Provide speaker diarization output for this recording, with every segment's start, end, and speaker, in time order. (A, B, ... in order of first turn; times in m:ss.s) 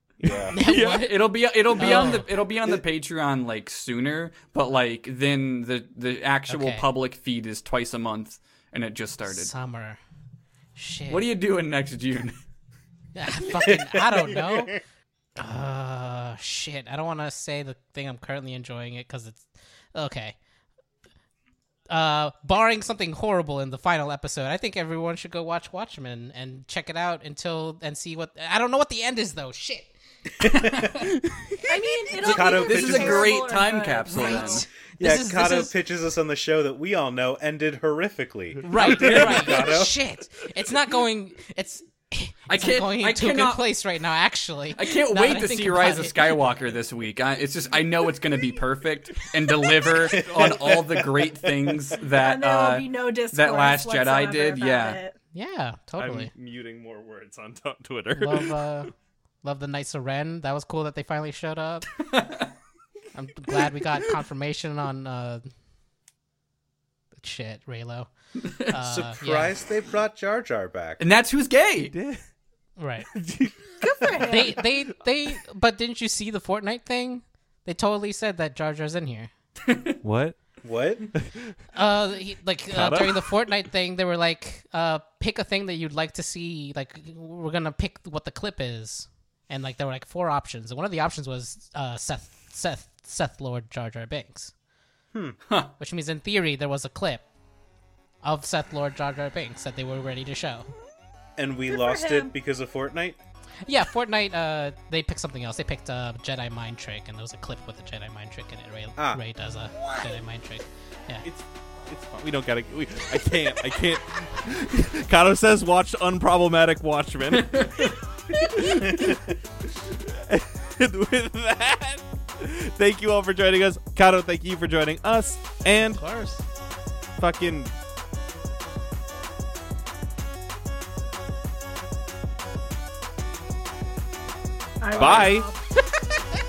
0:00.2-0:00.6 A
0:00.2-0:00.5 B
0:00.5-0:02.3 C
0:00.6-0:09.5 D
0:01.8-0:02.8 A
0:06.5-0:06.8 C
0:09.3-0:10.0 C
0:10.8-0:11.3 C
0:11.1-0:12.4 D
0:13.1-0:14.8 C
0:13.5-0:14.7 A
0:15.4-0:20.4 C
0:21.9-0:29.9 C
0:30.4-0:31.0 A
0:31.1-0:31.6 B
0:31.7-0:34.6 E
0:32.2-0:33.4 A
0:32.2-0:34.6 D
0:34.1-0:35.7 C
0:35.0-0:39.9 A
0:38.6-0:46.4 C
0:38.7-0:39.7 B
0:42.5-0:43.6 D
0:44.8-0:55.0 D
0:50.0-0:51.9 A
0:52.2-0:55.2 E
0:55.3-0:56.3 C
0:56.0-0:58.8 B
0:58.1-0:58.9 C
0:59.4-1:01.9 C
1:02.1-1:02.5 D
1:03.1-1:05.4 C
1:07.2-1:09.6 C
1:08.4-1:08.7 D
1:08.7-1:11.0 A
1:11.0-1:11.9 D
1:11.8-1:12.2 B
1:12.8-1:13.1 C
1:13.1-1:14.0 B
1:13.8-1:14.6 E
1:14.2-1:19.3 C
1:19.6-1:20.0 D
1:20.0-1:20.4 B
1:20.6-1:21.1 A
1:21.1-1:21.5 B
1:21.7-1:34.5 C
1:22.7-1:23.3 B
1:35.8-1:37.2 C
1:38.2-1:40.7 C
1:41.4-1:43.2 A
1:41.7-1:42.3 E
1:43.6-1:51.2 C
1:49.0-1:49.2 A
1:51.2-2:06.0 B
1:57.3-1:57.9 D
1:58.7-1:59.2 A
2:05.8-2:06.4 C
2:07.2-2:07.7 B
2:14.8-2:15.6 E
2:14.9-2:15.3 A
2:15.0-2:15.5 B